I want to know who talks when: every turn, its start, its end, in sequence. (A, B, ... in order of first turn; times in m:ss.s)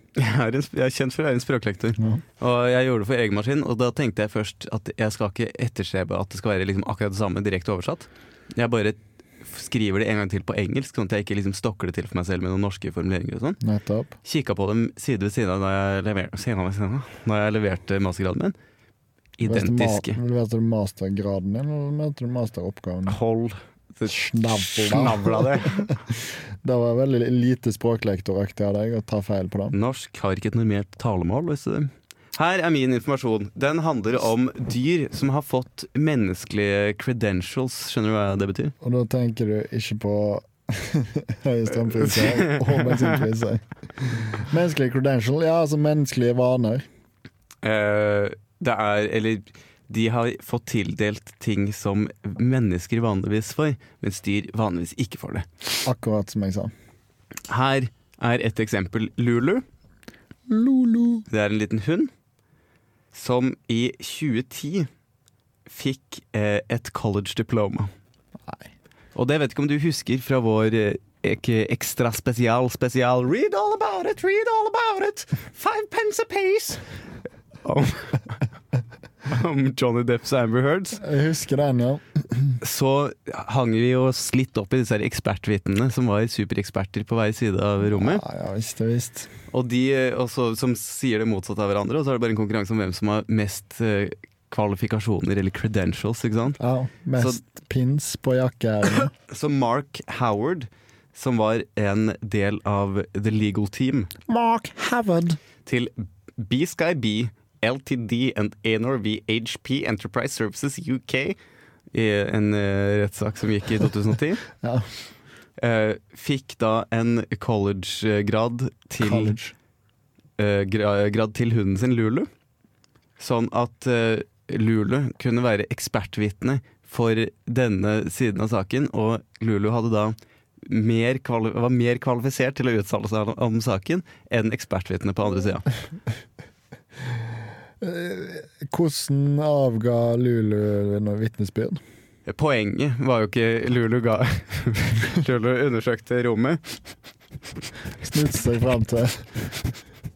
0:00.2-0:13.6 A
0:13.6-0:14.2 B
0:14.2-0:18.5 A
0:19.4-0:20.2 A
0:19.4-0:23.2 B
0:23.1-0:25.9 A
0:24.1-0:29.7 B
0:29.7-0:38.7 A
0:38.8-0:43.6 B
0:42.0-0:43.2 A
0:44.2-0:46.8 B
0:47.6-0:55.5 A
0:55.8-0:56.7 B
0:57.5-0:59.6 A
1:00.5-1:01.2 B
1:01.3-1:02.1 A
1:03.1-1:04.9 A
1:05.7-1:07.9 A
1:09.1-1:16.8 A
1:17.6-1:18.4 A
1:19.2-1:21.0 A
1:21.0-1:22.5 B
1:22.6-1:28.2 A
1:27.8-1:29.3 B
1:29.5-1:36.6 A
1:36.6-1:39.1 B
1:39.2-1:44.1 A
1:44.3-1:45.4 B
1:45.6-1:51.4 A
1:51.9-1:54.4 A
1:54.6-1:54.9 B
1:55.6-1:59.3 A
1:59.0-1:59.5 B
2:00.4-2:02.3 A
2:03.2-2:15.6 A
2:17.8-2:21.8 B
2:22.2-2:26.8 A
2:28.0-2:29.5 B